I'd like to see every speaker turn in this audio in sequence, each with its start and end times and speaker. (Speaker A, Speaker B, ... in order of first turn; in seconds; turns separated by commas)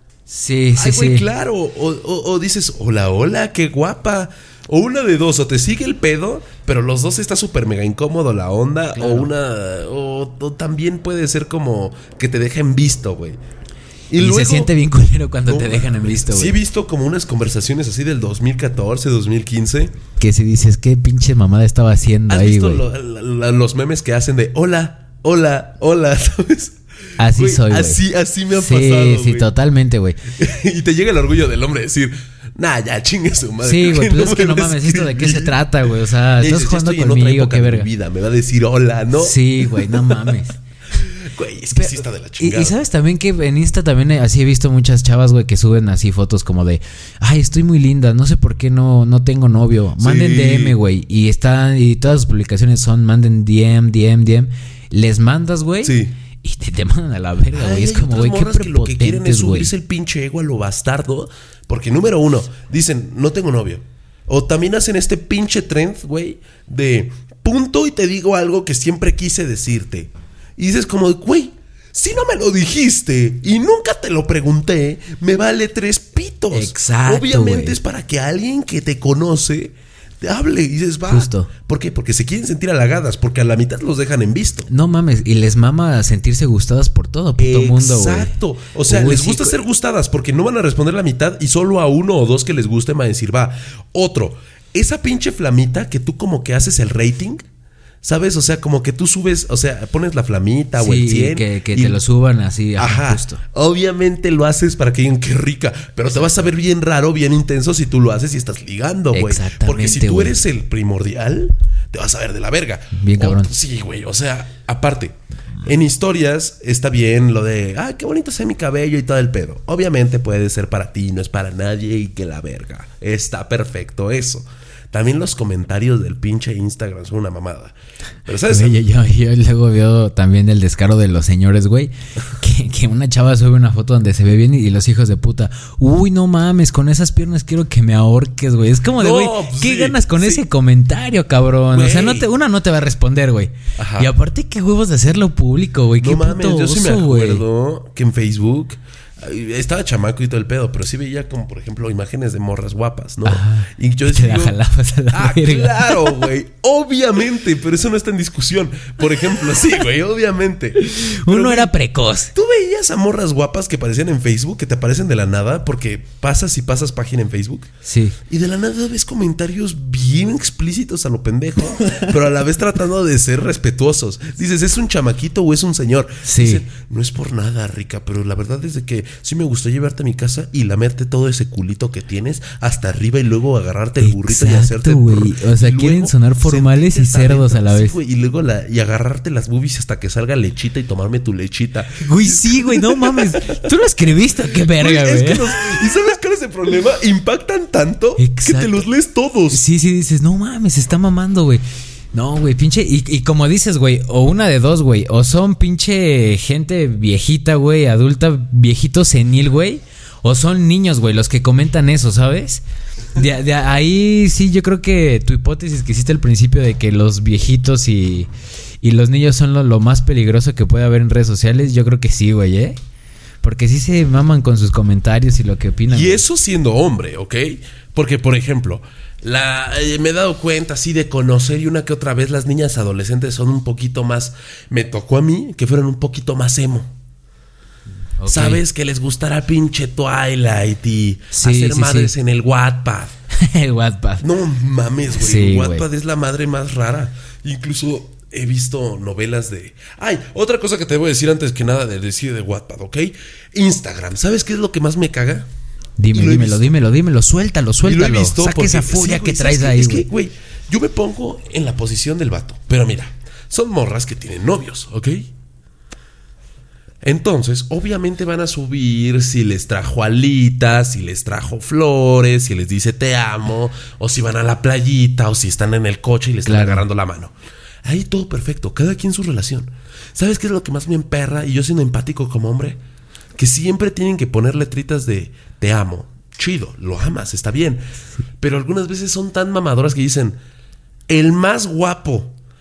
Speaker A: 0.3-1.2, Speaker B: 0.8-13.4, Speaker A: 8.9-9.3, Speaker B: 14.1-14.7, Speaker A: 14.2-16.6, Speaker B: 15.5-19.9, Speaker A: 20.2-22.8, Speaker B: 22.3-29.5, Speaker A: 27.2-28.0, Speaker A: 28.5-30.2, Speaker B: 30.3-35.6, Speaker A: 33.6-37.9, Speaker B: 36.3-40.3, Speaker A: 39.1-40.6, Speaker B: 40.9-42.8, Speaker A: 41.7-59.7, Speaker B: 50.0-50.8, Speaker B: 55.8-56.1, Speaker B: 57.5-84.7, Speaker A: 76.5-77.8, Speaker A: 81.1-81.5, Speaker A: 84.7-88.3, Speaker B: 87.4-97.4, Speaker A: 88.9-89.6, Speaker B: 98.0-102.0, Speaker A: 100.8-103.4, Speaker B: 102.8-127.7, Speaker A: 109.1-110.4, Speaker A: 112.9-113.5, Speaker B: 128.2-128.8, Speaker A: 128.5-147.4, Speaker B: 139.0-140.4, Speaker B: 141.7-142.3, Speaker B: 143.8-144.1, Speaker B: 146.0-154.6, Speaker A: 153.2-156.2, Speaker B: 155.1-161.7, Speaker A: 160.8-162.3, Speaker B: 162.3-167.7, Speaker A: 167.8-168.2, Speaker B: 168.3-193.7, Speaker A: 176.2-176.6, Speaker A: 184.0-187.9, Speaker A: 192.0-196.0, Speaker B: 194.4-199.6, Speaker A: 198.2-198.9, Speaker A: 199.5-218.3, Speaker A: 218.8-222.8, Speaker A: 223.4-226.2, Speaker B: 225.9-236.9, Speaker A: 238.2-238.6, Speaker B: 238.2-243.1, Speaker A: 241.3-242.1, Speaker A: 243.3-244.2, Speaker B: 244.2-255.5, Speaker A: 245.1-245.8, Speaker A: 256.0-260.1, Speaker B: 256.1-256.7, Speaker B: 257.8-265.3, Speaker B: 267.0-277.3, Speaker A: 276.4-276.8, Speaker B: 277.8-282.8, Speaker B: 283.4-287.8, Speaker B: 288.4-290.4, Speaker B: 291.1-292.3